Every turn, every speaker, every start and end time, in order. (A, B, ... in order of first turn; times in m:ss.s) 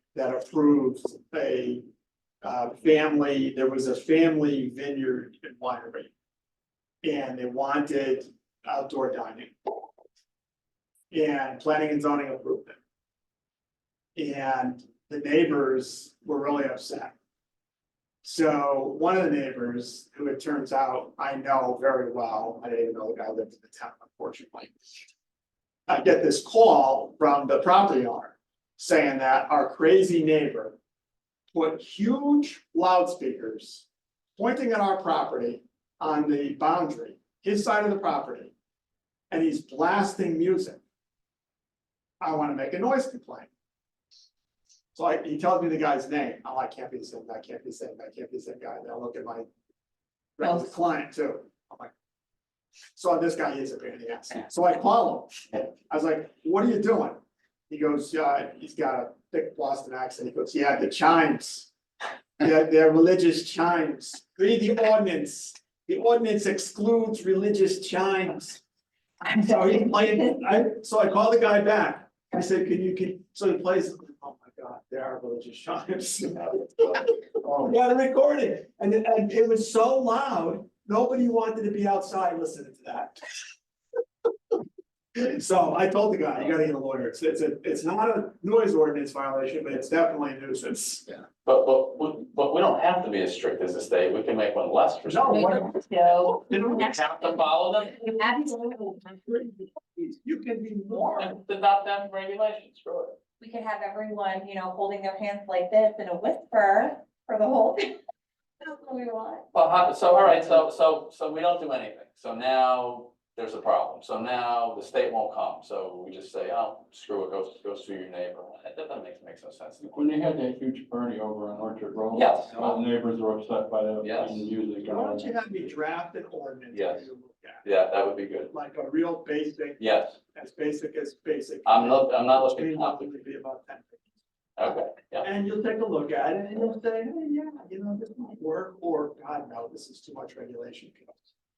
0:00.1-0:01.8 A
0:02.4-0:06.1 A
0:07.0-0:09.6 A
0:11.1-0:12.8 A
0:14.2-0:17.2 A
0:18.2-0:24.8 A
0:25.9-0:30.8 A
0:31.5-0:38.5 A
0:39.3-0:40.8 A
0:42.2-0:43.5 A
0:44.9-0:49.5 A
0:50.4-0:51.9 A
0:50.4-0:50.7 B
0:53.0-1:01.7 A
1:02.4-1:08.6 A
1:09.3-1:10.2 B
1:09.3-1:23.2 A
1:16.4-1:17.1 C
1:17.4-1:17.7 D
1:25.2-1:31.2 A
1:31.4-1:35.7 C
1:35.1-1:37.0 A
1:35.3-1:37.4 B
1:36.3-1:38.2 C
1:38.0-1:39.0 B
1:38.4-1:41.4 A
1:41.2-1:43.2 C
1:43.4-1:48.0 B
1:48.6-1:49.4 B
1:49.5-2:00.1 C
1:59.9-2:05.4 D
2:02.1-2:02.8 C
2:04.0-2:04.5 C
2:04.8-2:07.6 A
2:06.7-2:07.1 C
2:07.6-2:08.5 C
2:08.5-2:09.8 A
2:09.8-2:10.2 C
2:10.3-2:14.1 A
2:11.6-2:13.2 C
2:14.6-2:15.3 C
2:15.2-2:21.3 A